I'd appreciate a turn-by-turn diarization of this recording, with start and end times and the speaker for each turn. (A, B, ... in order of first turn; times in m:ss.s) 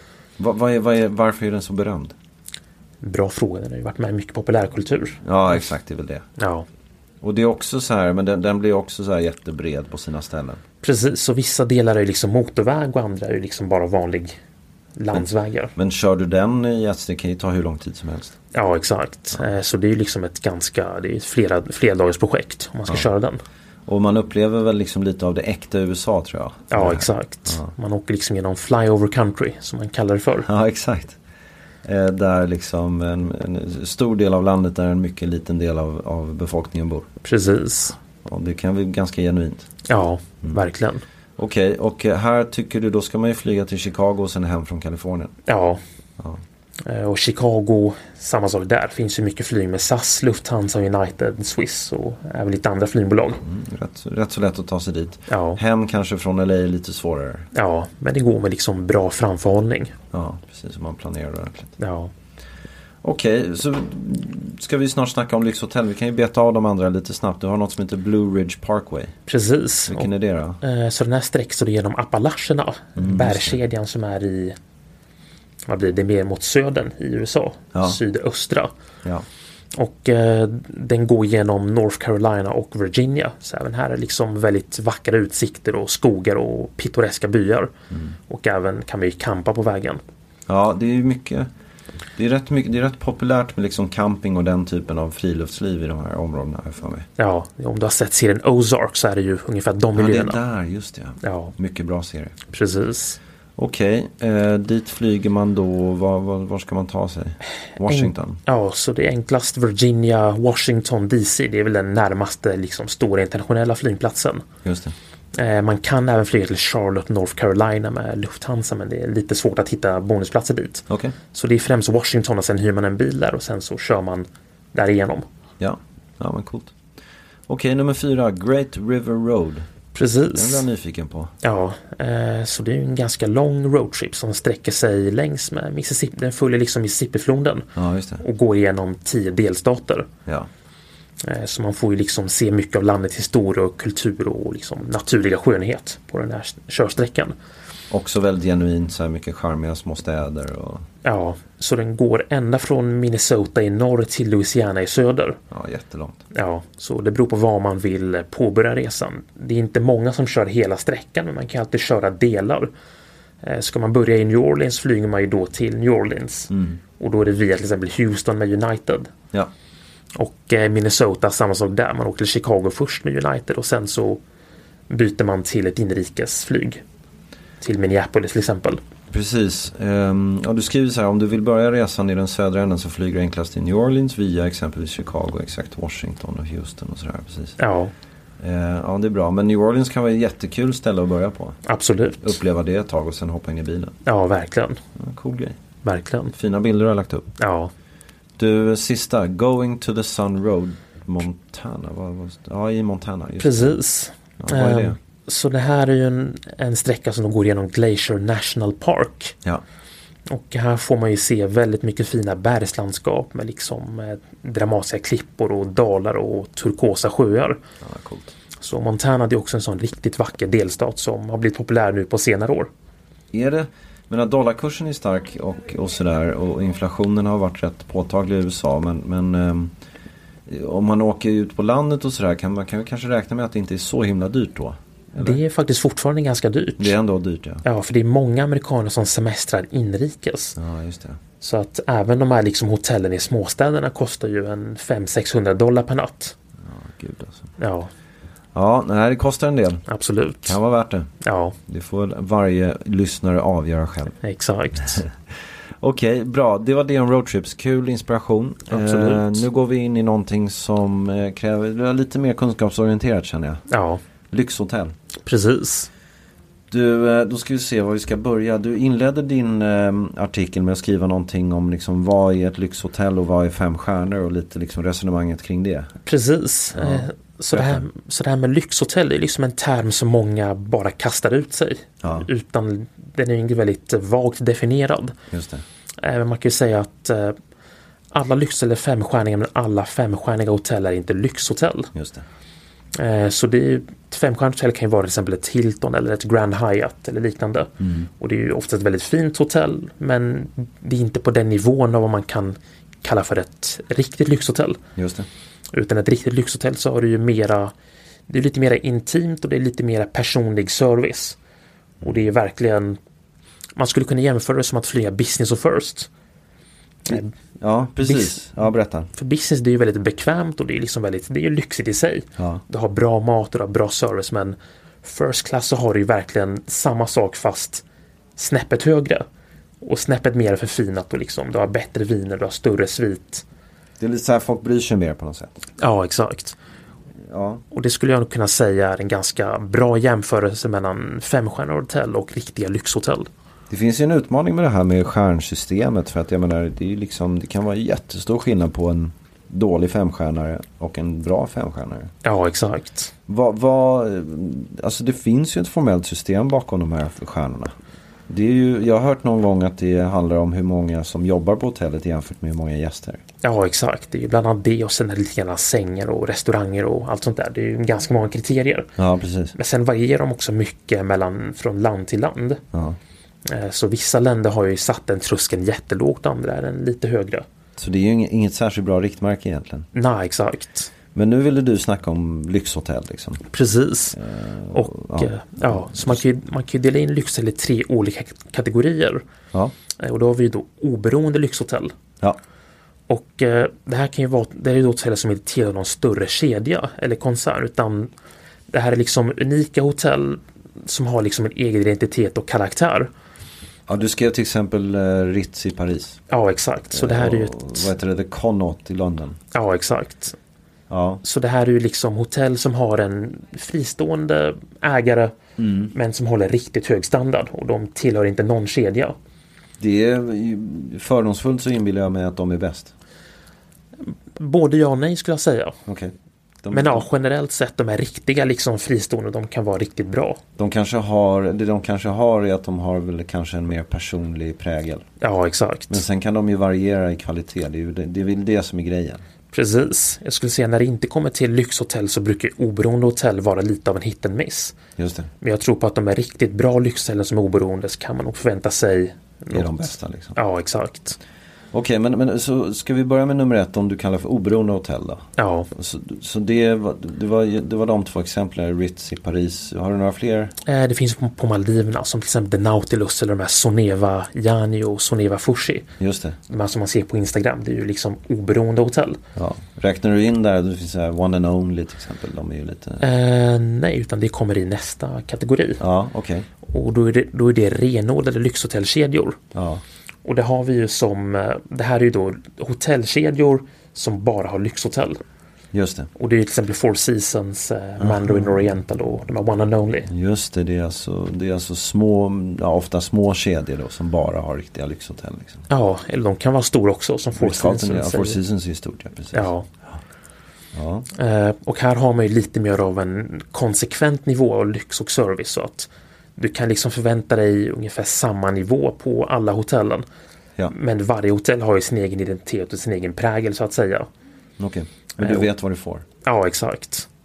0:00.4-0:02.1 A
0:03.0-0:05.6 B
0:05.2-0:06.2 A
0:06.4-0:06.6 B
0:07.2-0:10.6 A
0:10.8-0:14.4 B
0:15.0-0:15.7 B
0:15.1-0:18.4 A
0:18.5-0:23.4 B
0:23.8-0:27.7 A
0:26.7-0:30.5 B
0:30.4-0:31.2 A
0:31.8-0:37.1 A
0:37.2-0:38.0 B
0:38.2-0:39.7 A
0:39.9-0:41.0 B
0:41.4-0:45.3 A
0:45.5-0:45.8 B
0:46.8-0:53.4 B
0:53.4-0:57.5 A
0:55.3-0:55.6 B
0:57.5-0:59.9 B
1:00.1-1:01.7 A
1:01.8-1:02.1 B
1:03.0-1:09.1 A
1:09.3-1:14.6 B
1:09.9-1:10.6 A
1:13.0-1:13.6 A
1:15.7-1:18.7 B
1:17.7-1:18.0 A
1:19.7-1:27.7 B
1:27.9-1:28.2 A
1:28.3-1:30.0 B
1:30.5-1:31.5 A
1:32.2-1:37.1 A
1:37.2-1:40.4 B
1:39.9-1:42.3 A
1:41.2-1:41.5 B
1:42.5-1:43.2 B
1:43.6-1:48.4 A
1:47.9-1:54.4 B
1:54.6-1:54.9 A
1:55.3-2:05.2 B
2:00.9-2:01.2 A
2:05.6-2:06.7 A
2:07.5-2:09.7 A
2:09.9-2:10.7 B
2:10.3-2:11.3 A
2:11.4-2:17.7 B
2:17.8-2:18.2 A
2:18.2-2:20.1 B
2:21.2-2:27.3 B
2:27.9-2:30.8 A
2:31.0-2:35.4 B
2:35.5-2:36.2 A
2:36.3-2:42.7 B
2:43.4-2:49.1 B
2:46.5-2:46.8 A
2:50.1-2:54.2 B
2:54.9-2:56.8 B
2:57.6-2:58.8 B
2:59.1-3:07.6 A
3:07.6-3:07.9 B
3:08.4-3:11.6 A
3:11.6-3:12.4 B
3:12.2-3:13.9 A
3:14.0-3:14.8 B
3:15.0-3:15.6 A
3:15.8-3:16.3 B
3:16.3-3:17.3 A
3:17.4-3:17.7 B
3:18.4-3:23.8 A
3:23.4-3:29.4 B
3:24.4-3:25.0 A
3:30.3-3:37.6 B
3:37.8-3:38.3 A
3:38.6-3:42.7 B
3:43.3-3:49.7 A
3:50.5-3:55.4 A
3:55.2-3:57.0 B
3:56.8-3:57.6 A
3:57.6-4:00.6 B
4:00.6-4:01.2 A
4:01.4-4:06.4 B
4:06.6-4:07.5 A
4:07.6-4:07.9 B
4:08.5-4:09.8 A
4:09.9-4:10.6 B
4:10.4-4:11.1 A
4:11.2-4:11.6 B
4:11.7-4:14.1 A
4:14.2-4:15.0 B
4:14.8-4:15.1 A
4:15.8-4:23.6 A
4:18.7-4:19.4 B
4:23.7-4:24.0 B
4:24.3-4:24.9 A
4:25.2-4:25.9 B
4:26.7-4:35.9 A
4:36.0-4:45.1 B
4:36.7-4:37.8 A
4:42.0-4:42.3 A
4:45.3-4:45.6 A
4:46.0-4:47.4 B
4:48.1-4:51.9 B
4:51.9-4:52.2 A
4:52.9-5:04.8 B
4:57.8-4:58.1 A
5:05.0-5:05.3 A
5:05.7-5:07.7 B
5:08.3-5:11.4 B
5:12.0-5:13.0 B
5:13.8-5:16.1 B
5:17.0-5:17.3 B
5:17.1-5:19.1 A
5:18.0-5:27.8 B
5:22.4-5:22.6 A
5:28.4-5:29.2 B
5:29.8-5:33.4 B
5:34.0-5:35.6 A
5:35.8-5:36.6 B
5:37.2-5:37.6 A
5:37.7-5:43.3 B
5:43.7-5:52.1 A
5:52.2-5:53.1 B
5:53.3-5:57.7 A
5:58.3-6:03.2 A
6:03.4-6:08.9 B
6:09.0-6:09.6 A
6:09.6-6:12.6 B
6:12.7-6:13.0 A
6:13.4-6:17.4 B
6:17.8-6:19.9 A
6:19.9-6:20.9 B
6:21.1-6:23.4 A
6:23.5-6:24.2 B
6:24.1-6:26.2 A
6:24.7-6:29.2 B
6:30.0-6:31.9 B
6:33.1-6:38.1 B
6:38.7-6:43.1 B
6:43.9-6:46.2 A
6:46.3-6:47.9 B
6:46.9-6:49.4 A
6:49.5-6:50.4 B
6:50.9-6:51.2 A
6:51.2-6:55.3 B
6:55.6-6:55.9 A
6:55.9-6:59.2 B
6:59.8-7:02.9 A
7:04.1-7:05.8 B
7:05.9-7:07.0 A
7:06.7-7:10.4 B
7:10.6-7:15.0 A
7:15.2-7:16.0 B
7:15.9-7:19.2 A
7:19.5-7:24.8 B
7:25.0-7:25.3 A
7:25.4-7:31.2 B
7:29.5-7:30.4 A
7:31.7-7:40.5 A
7:35.4-7:35.7 B
7:40.6-7:45.9 B
7:46.0-7:46.4 A
7:46.5-7:49.2 B
7:49.4-7:53.0 A
7:53.0-7:55.8 B
7:55.8-7:56.5 A
7:56.6-7:59.4 B
7:59.5-7:59.8 A
8:00.2-8:05.2 B
8:05.7-8:06.1 A
8:06.2-8:10.1 B
8:08.0-8:08.7 A
8:10.1-8:15.6 A
8:15.7-8:18.4 B
8:17.3-8:20.0 A
8:19.3-8:19.7 B
8:20.7-8:21.1 A
8:21.1-8:30.0 B
8:30.7-8:34.1 B
8:34.6-8:36.0 A
8:35.2-8:35.5 B
8:36.2-8:37.1 B